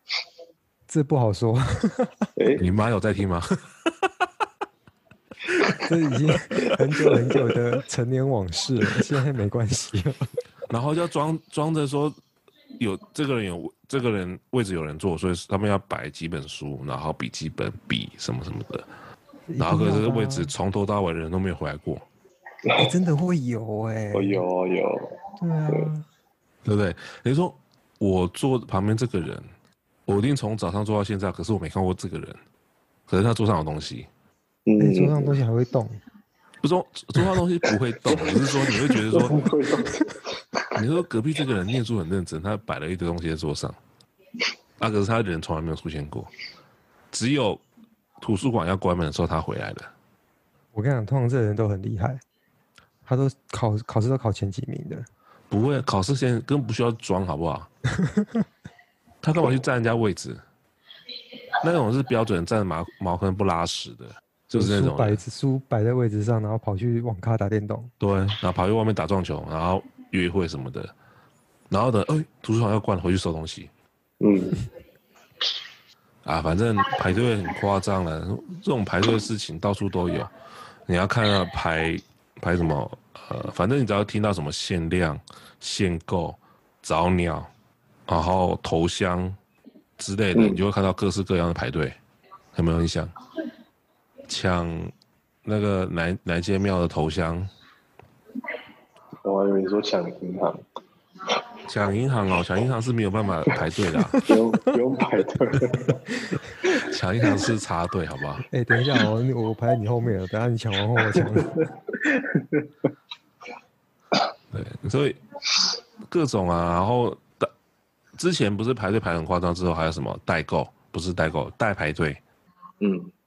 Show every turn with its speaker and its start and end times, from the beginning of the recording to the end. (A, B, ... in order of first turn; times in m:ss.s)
0:00.9-0:02.3 A
0:02.4-0:02.7 B
0:02.6-0:04.2 C
0:05.8-0:10.2 A
0:07.1-0:07.5 B
0:10.7-0:12.2 C
0:12.8-0:18.9 C
0:19.5-0:20.5 A
0:19.6-0:22.0 C
0:22.6-0:22.9 B
0:22.8-0:24.4 A
0:24.1-0:25.9 B
0:25.4-0:26.0 A
0:26.6-0:29.4 C
0:30.1-0:32.4 C
0:33.1-0:34.1 C
0:34.6-0:35.4 B
0:34.8-0:36.0 A
0:36.6-0:39.5 C
0:38.1-0:40.7 B
0:40.7-0:43.8 C
0:44.8-0:46.3 C
0:47.1-0:47.6 C
0:48.2-0:49.9 C
0:50.7-0:52.2 A
0:53.0-0:55.1 A
0:55.5-0:57.7 C
0:57.9-0:58.4 A
0:59.2-1:00.4 C
1:01.6-1:05.2 C
1:04.5-1:07.9 A
1:08.0-1:10.9 C
1:11.7-1:13.7 C
1:14.2-1:14.6 B
1:16.2-1:20.3 C
1:20.9-1:27.5 C
1:28.1-1:29.4 C
1:30.0-1:32.0 C
1:30.3-1:30.6 B
1:32.5-1:33.1 C
1:34.3-1:34.9 C
1:35.4-1:37.5 C
1:39.2-1:40.6 B
1:41.7-1:44.2 C
1:44.2-1:46.0 B
1:46.6-1:48.4 C
1:48.5-1:51.7 A
1:51.0-1:52.7 B
1:54.5-1:55.2 C
1:56.1-1:57.5 C
1:58.2-2:02.2 C
2:02.8-2:03.1 B